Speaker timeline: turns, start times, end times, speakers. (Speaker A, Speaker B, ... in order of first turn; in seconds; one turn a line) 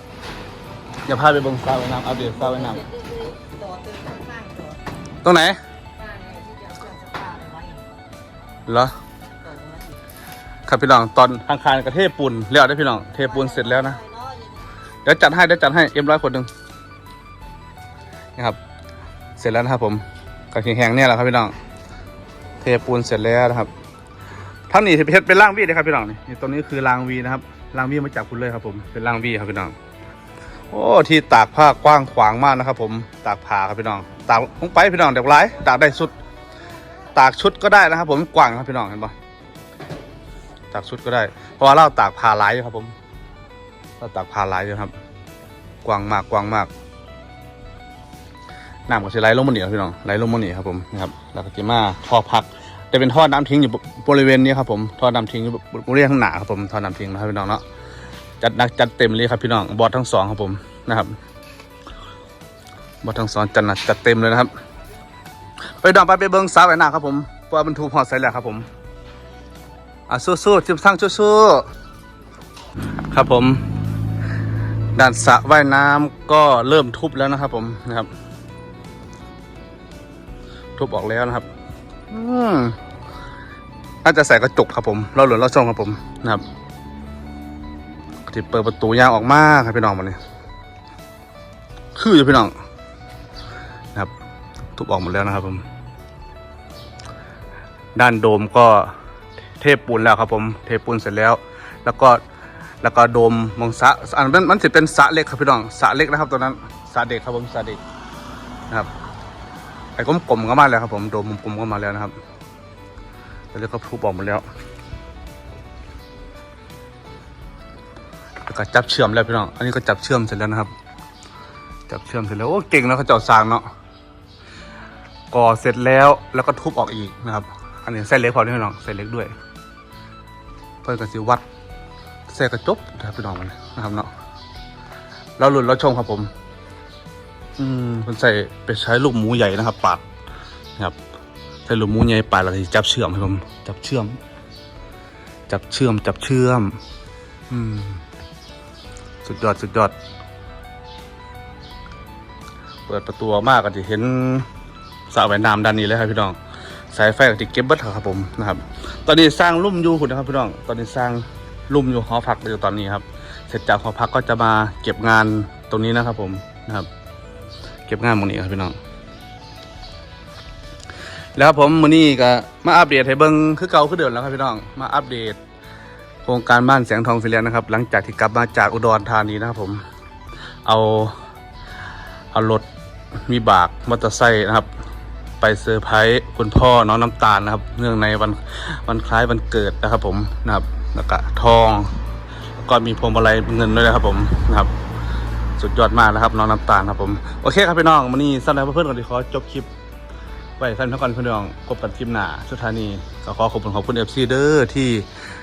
Speaker A: 1.0-2.8
Speaker B: 2.3-4.8
Speaker A: 5.2-5.6
Speaker B: 6.0-7.8
Speaker A: 8.7-8.9
Speaker B: 9.2-10.0
Speaker A: 10.7-14.0
Speaker B: 13.2-14.7
Speaker A: 15.0-16.5
Speaker A: 19.4-21.5
Speaker A: 22.6-23.7
Speaker A: 24.7-29.7
Speaker A: 30.7-36.1
Speaker A: 37.1-39.1
Speaker A: 40.7-42.9
Speaker A: 44.0-44.9
Speaker A: 45.8-46.7
Speaker A: 48.9-57.6
Speaker A: 58.4-61.1
Speaker A: 63.0-64.5
Speaker A: 65.8-68.7
Speaker A: 70.1-71.7
Speaker A: 73.1-73.6
Speaker A: 74.9-78.1
Speaker A: 80.8-81.5
Speaker A: 82.1-82.8
Speaker A: 84.0-86.4
Speaker A: 88.3-90.2
Speaker A: 92.0-92.5
Speaker A: 94.8-95.6
Speaker A: 98.0-98.9
Speaker A: 99.6-102.2
Speaker A: 102.8-107.8
Speaker A: 110.0-112.1
Speaker A: 113.5-114.4
Speaker A: 118.5-120.7
Speaker A: 121.9-123.7
Speaker A: 125.3-129.3
Speaker A: 130.8-131.4
Speaker A: 132.3-134.1
Speaker A: 135.4-136.3
Speaker A: 137.6-140.0
Speaker A: 141.7-144.2
Speaker A: 145.5-146.8
Speaker A: 147.5-148.0
Speaker A: 149.2-149.9
Speaker A: 152.9-154.4
Speaker A: 155.1-156.4
Speaker A: 156.9-166.9
Speaker A: 167.9-168.8
Speaker A: 171.3-175.4
Speaker A: 176.2-179.8
Speaker A: 180.7-181.1
Speaker A: 182.3-182.7
Speaker A: 183.2-184.7
Speaker A: 185.4-191.9
Speaker A: 192.6-194.7
Speaker A: 195.6-199.7
Speaker A: 200.6-205.1